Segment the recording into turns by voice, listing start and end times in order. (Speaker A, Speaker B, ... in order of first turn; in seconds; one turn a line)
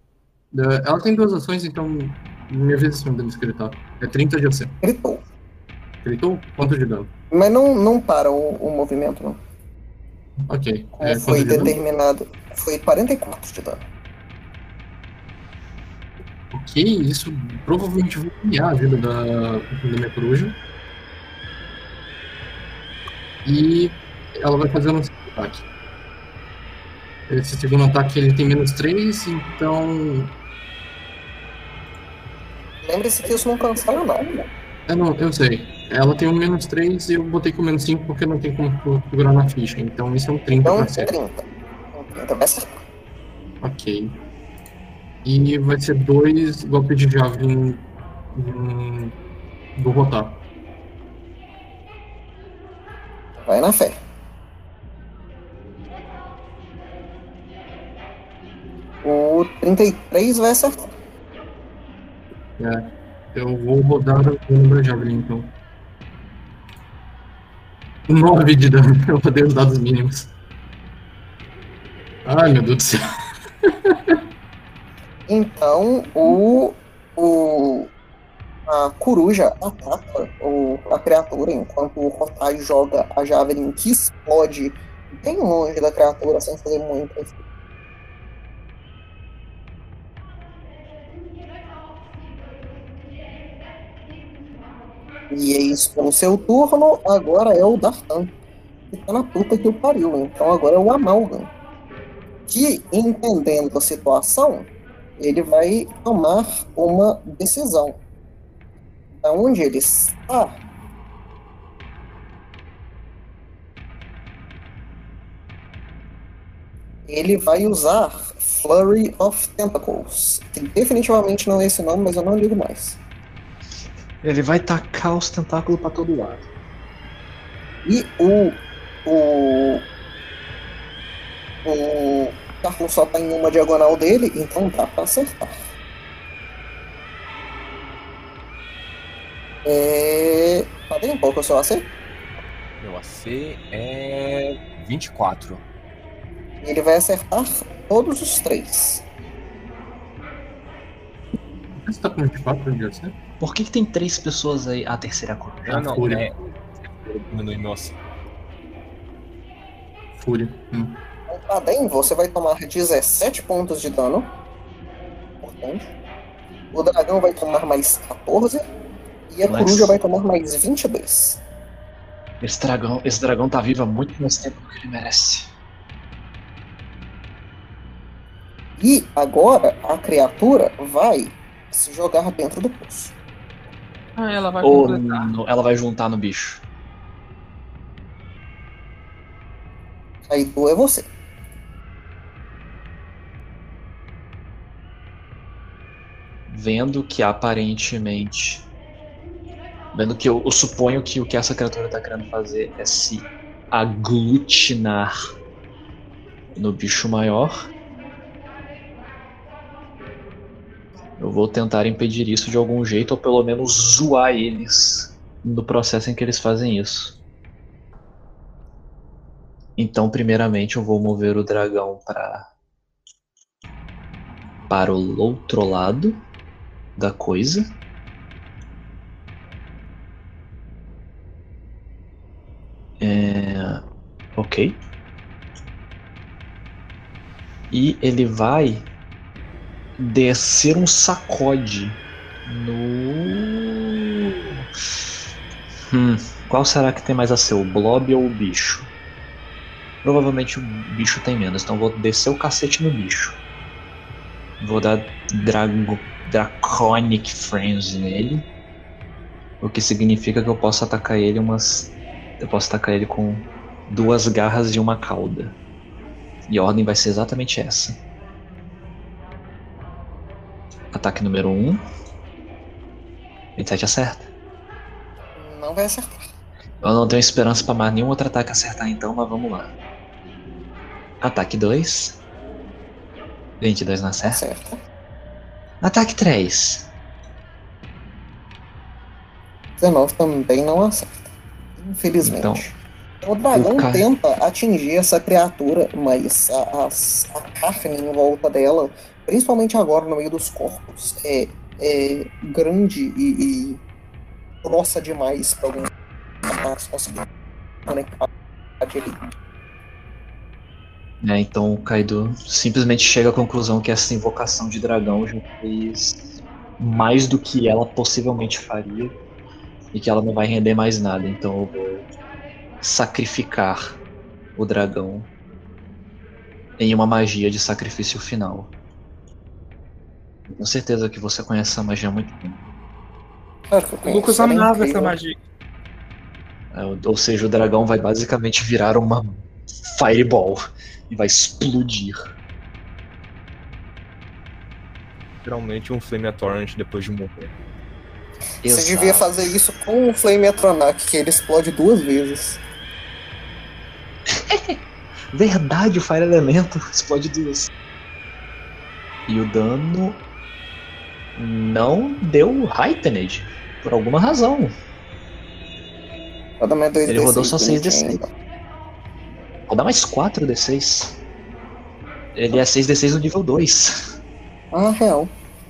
Speaker A: 0.5-4.7
Speaker B: 4.8-5.2
Speaker A: 6.0-7.1
Speaker B: 7.3-9.4
Speaker A: 10.5-11.8
Speaker B: 11.0-13.8
Speaker A: 16.5-20.6
Speaker A: 23.4-25.6
Speaker A: 27.3-30.3
Speaker B: 32.8-34.4
Speaker A: 34.9-41.1
Speaker B: 40.6-42.8
Speaker A: 43.6-44.1
Speaker A: 45.2-49.1
Speaker A: 49.8-50.4
Speaker B: 53.4-54.0
Speaker B: 59.0-60.9
Speaker A: 62.6-65.5
Speaker A: 68.1-70.3
Speaker A: 72.2-73.0
Speaker A: 73.6-74.2
Speaker B: 75.3-77.9
Speaker B: 78.7-87.3
Speaker B: 95.3-98.3
Speaker B: 98.9-101.5
Speaker B: 102.5-108.0
Speaker B: 109.2-110.6
Speaker B: 117.1-123.0
Speaker C: 124.2-126.5
Speaker B: 127.8-129.8
Speaker B: 131.6-135.6
Speaker B: 139.6-141.8
Speaker D: 142.8-145.6
Speaker B: 146.6-149.0
Speaker A: 151.8-153.2
Speaker C: 153.4-155.9
Speaker D: 155.7-158.0
Speaker A: 155.7-156.3
Speaker A: 160.2-161.0
Speaker B: 161.3-164.3
Speaker B: 165.4-165.9
Speaker B: 166.7-168.6
Speaker B: 169.3-171.4
Speaker C: 169.5-169.9
Speaker C: 172.4-175.5
Speaker B: 178.8-183.1
Speaker E: 184.2-185.3
Speaker C: 184.6-186.6
Speaker B: 190.3-191.1
Speaker C: 196.5-198.7
Speaker C: 199.9-205.1
Speaker C: 206.5-207.7
Speaker C: 211.2-217.2
Speaker C: 219.8-222.4
Speaker C: 224.7-226.2
Speaker C: 227.0-227.6
Speaker C: 233.0-233.8
Speaker C: 234.3-234.8
Speaker C: 237.7-238.9
Speaker C: 240.0-244.6
Speaker C: 245.9-248.8
Speaker C: 250.0-253.4
Speaker C: 254.6-258.5
Speaker C: 259.6-265.6
Speaker C: 266.5-268.0
Speaker C: 270.9-271.8
Speaker C: 273.6-274.3
Speaker B: 275.4-276.2
Speaker C: 276.8-279.7
Speaker C: 281.2-282.2
Speaker C: 283.6-284.4
Speaker B: 284.3-284.8
Speaker C: 285.8-286.9
Speaker B: 289.8-303.8
Speaker C: 292.2-292.6
Speaker C: 293.5-294.1
Speaker B: 304.6-305.9
Speaker B: 306.4-307.2
Speaker B: 307.9-308.3
Speaker B: 308.8-309.2
Speaker C: 311.2-316.2
Speaker C: 316.8-319.1
Speaker C: 319.9-322.1
Speaker C: 322.8-324.0
Speaker C: 324.6-325.3
Speaker C: 326.8-328.7
Speaker C: 330.5-332.6
Speaker B: 333.7-335.1
Speaker E: 334.0-335.4
Speaker C: 336.7-342.2
Speaker D: 345.4-347.5
Speaker C: 348.6-349.5
Speaker B: 348.6-352.6
Speaker C: 354.3-354.8
Speaker C: 355.3-357.7
Speaker C: 359.3-360.2
Speaker C: 361.4-364.7
Speaker B: 366.6-368.3
Speaker C: 367.1-368.2
Speaker C: 369.7-371.2
Speaker C: 372.3-373.9
Speaker B: 374.7-375.3